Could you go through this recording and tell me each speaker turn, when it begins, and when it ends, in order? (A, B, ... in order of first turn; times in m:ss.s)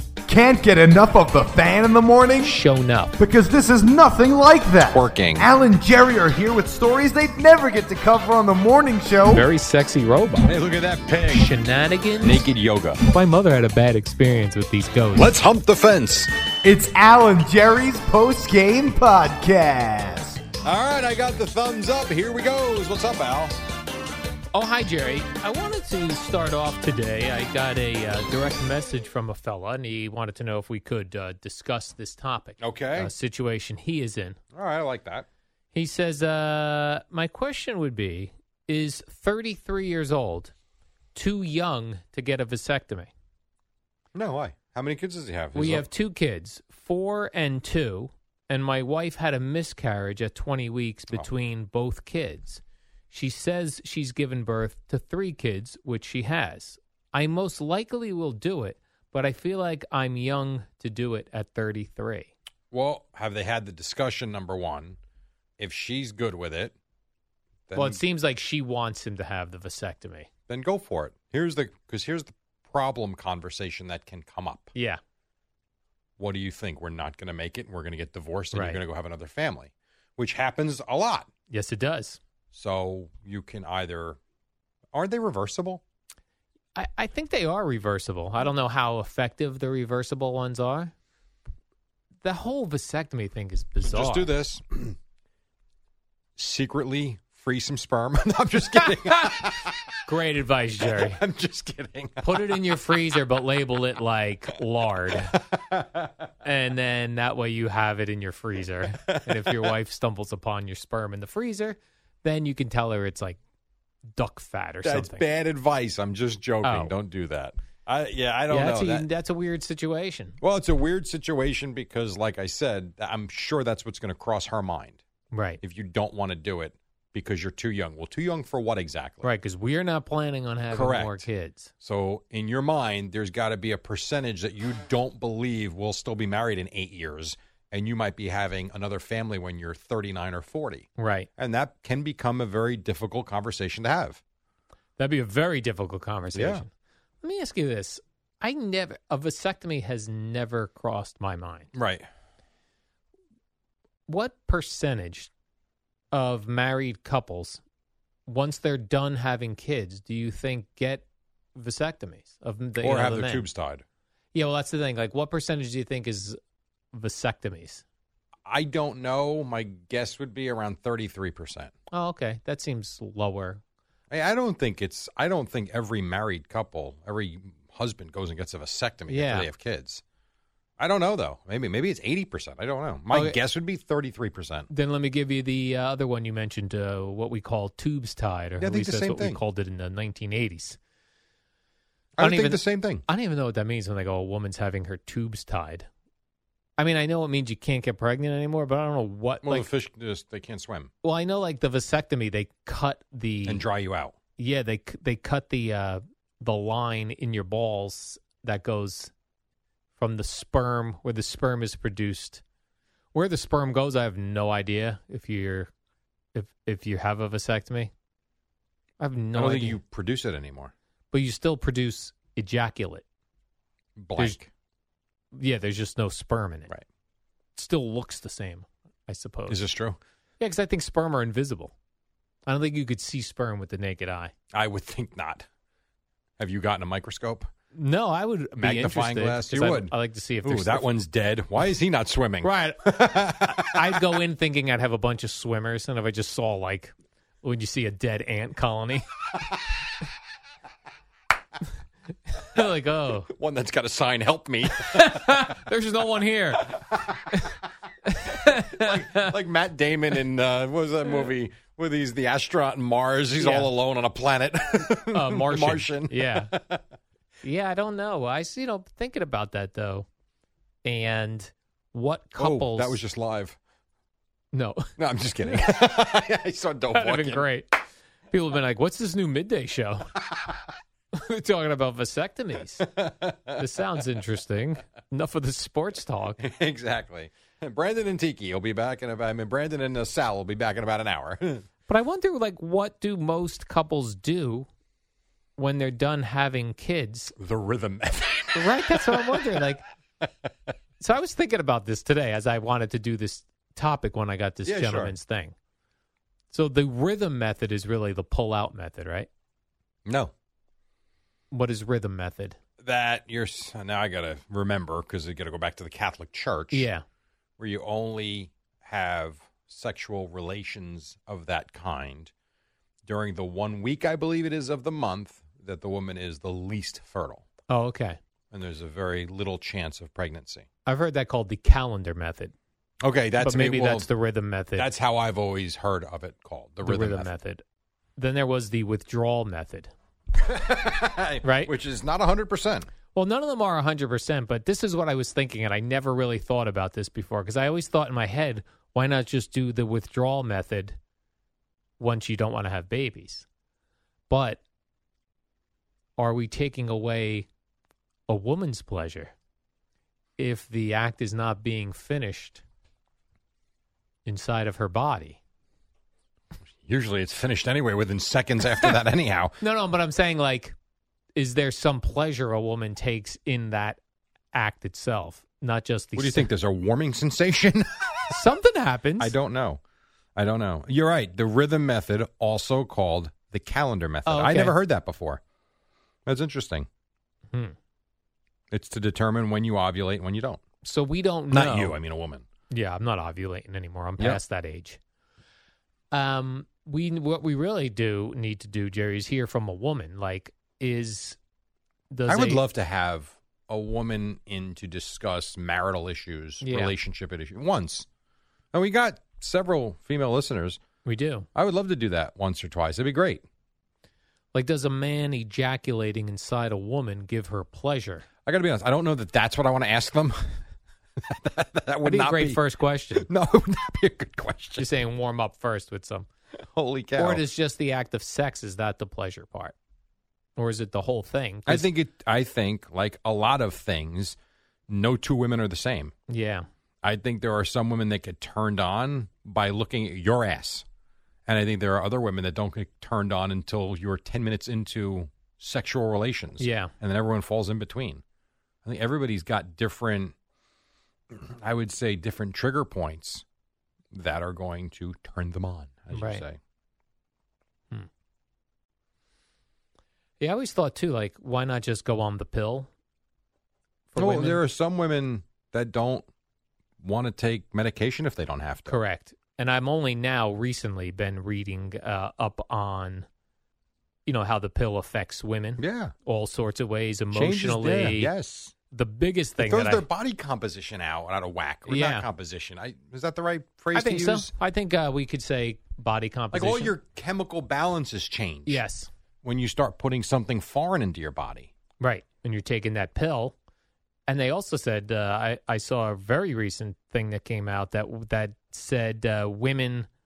0:00.3-0:02.6 A
0:02.4-0:03.1 B
0:03.2-0:09.4 A
0:04.9-0:05.5 C
0:09.2-0:10.5 B
0:10.4-0:11.5 C
0:11.3-0:12.4 B
0:12.2-0:13.0 C
0:13.0-0:15.3 B
0:15.1-0:16.3 C
0:16.6-0:20.4 A
0:20.6-0:23.6 C
0:24.5-0:34.4 B
0:32.6-0:33.1 C
0:34.5-0:35.3 C
0:35.7-0:40.5 B
0:41.1-0:43.1 B
0:44.1-0:45.9 C
0:45.5-1:02.3 B
1:02.7-1:05.0 C
1:05.6-1:06.7 C
1:07.7-1:08.0 C
1:07.7-1:10.3 B
1:10.5-1:14.7 C
1:14.7-1:15.0 B
1:16.2-1:21.3 C
1:18.5-1:18.8 B
1:21.5-1:22.2 B
1:22.5-1:24.2 C
1:24.9-1:25.8 C
1:26.7-1:30.9 B
1:32.2-1:34.3 B
1:33.8-1:35.0 C
1:36.4-1:39.9 C
1:38.8-1:39.4 B
1:40.0-1:41.2 B
1:40.8-1:42.7 C
1:42.2-1:45.4 B
1:45.5-1:46.1 C
1:46.4-1:53.4 B
1:49.0-1:49.7 C
1:54.2-1:55.2 B
1:54.8-1:59.1 C
1:56.6-1:56.9 B
1:58.5-2:00.4 B
2:00.4-2:05.0 C
2:05.3-2:05.6 B
2:05.6-2:09.2 C
2:09.2-2:11.7 B
2:10.7-2:11.2 C
2:11.8-2:24.2 C
2:21.0-2:21.3 B
2:25.0-2:26.7 B
2:26.3-2:26.6 C
2:27.2-2:31.7 B
2:31.7-2:32.1 C
2:34.1-2:35.3 B
2:36.1-2:37.6 B
2:38.2-2:41.0 B
2:41.5-2:43.5 B
2:42.8-2:43.8 C
2:44.3-2:46.4 B
2:46.9-2:47.8 B
2:48.4-2:51.7 C
2:51.9-2:53.6 B
2:54.1-3:00.0 C
2:59.1-2:59.5 B
3:00.8-3:04.7 C
3:03.1-3:03.4 B
3:04.7-3:10.8 B
3:08.6-3:09.4 C
3:12.2-3:13.0 C
3:12.2-3:15.9 B
3:16.8-3:19.7 B
3:19.4-3:20.9 C
3:21.0-3:23.6 B
3:23.4-3:24.2 C
3:24.4-3:29.1 B
3:30.0-3:32.4 B
3:33.1-3:35.7 B
3:36.3-3:37.9 B
3:39.0-3:39.8 B
3:39.3-3:40.7 C
3:41.1-3:43.0 B
3:44.0-3:44.5 C
3:45.3-3:46.7 B
3:47.6-3:49.6 B
3:49.5-3:50.0 C
3:50.4-3:51.7 B
3:52.5-3:54.3 B
3:54.5-3:55.5 C
3:56.4-3:57.5 C
3:57.7-4:00.9 B
3:58.6-3:59.9 C
4:00.4-4:04.0 C
4:02.4-4:09.0 B
4:12.4-4:13.3 B
4:13.3-4:15.5 C
4:14.7-4:16.8 B
4:16.7-4:17.5 C
4:18.0-4:19.3 B
4:18.2-4:26.8 C
4:23.4-4:23.7 B
4:25.1-4:26.5 B
4:27.4-4:30.0 B
4:30.8-4:33.0 B
4:32.4-4:33.6 C
4:34.5-4:34.9 B
4:35.0-4:37.5 C
4:36.9-4:37.7 B
4:38.3-4:40.0 B
4:41.1-4:42.9 B
4:42.8-4:43.6 C
4:43.6-4:46.4 B
4:46.4-4:51.6 C
4:51.9-4:54.7 B
4:55.6-4:57.3 B
4:57.4-4:59.6 C
4:58.5-4:59.8 B
5:01.0-5:05.5 B
5:04.6-5:05.1 C
5:06.5-5:09.3 B
5:10.0-5:10.3 C
5:11.5-5:12.6 B
5:12.8-5:16.9 C
5:16.7-5:17.0 B
5:17.6-5:22.3 C
5:23.0-5:27.4 C
5:27.7-5:28.2 B
5:28.5-5:30.7 C
5:30.8-5:32.5 B
5:33.0-5:34.1 C
5:33.4-5:34.9 B
5:34.8-5:37.3 C
5:36.8-5:37.6 B
5:38.2-5:39.9 B
5:40.3-5:42.9 C
5:41.4-5:41.7 B
5:43.1-5:51.0 B
5:52.0-5:53.4 B
5:54.3-5:54.6 B
5:56.2-5:57.5 B
5:58.3-5:59.3 B
6:00.4-6:02.6 B
6:04.2-6:05.4 B
6:06.8-6:09.6 C
6:09.6-6:10.7 B
6:11.4-6:14.0 B
6:14.5-6:16.5 B
6:16.2-6:18.4 C
6:18.3-6:19.3 B
6:19.2-6:19.8 C
6:20.4-6:25.4 C
6:24.2-6:24.8 B
6:26.2-6:26.9 C
6:28.7-6:30.6 C
6:30.8-6:32.0 B
6:31.5-6:32.4 C
6:32.7-6:35.0 B
6:36.1-6:41.4 B
6:42.1-6:42.6 B
6:42.3-6:48.1 C
6:46.6-6:46.9 B
6:48.7-6:50.8 C
6:51.0-6:51.5 B
6:51.5-6:53.4 C
6:54.5-6:58.2 B
6:58.4-7:00.6 C
7:01.2-7:02.6 C
7:02.0-7:03.3 B
7:03.2-7:04.9 C
7:04.8-7:06.3 B
7:06.7-7:07.4 C
7:07.2-7:09.7 B
7:10.6-7:11.9 B
7:11.7-7:14.4 C
7:14.9-7:16.1 C
7:16.3-7:16.6 B
7:17.0-7:20.8 C
7:21.4-7:28.2 C
7:26.6-7:26.9 B
7:28.8-7:30.3 C
7:31.3-7:33.4 C
7:34.1-7:36.6 C
7:36.1-7:36.4 B
7:40.4-7:42.9 B
7:44.1-7:44.6 B
7:44.2-7:46.2 C
7:47.0-7:49.0 C
7:48.9-7:53.2 B
7:54.2-7:58.3 B
7:55.8-7:56.1 C
7:57.3-7:58.7 C
7:58.9-8:00.0 B
7:59.6-8:04.5 C
8:01.9-8:02.3 B
8:03.9-8:06.9 B
8:06.5-8:08.8 C
8:08.6-8:09.1 B
8:09.4-8:11.7 C
8:12.0-8:13.5 B
8:14.3-8:20.1 B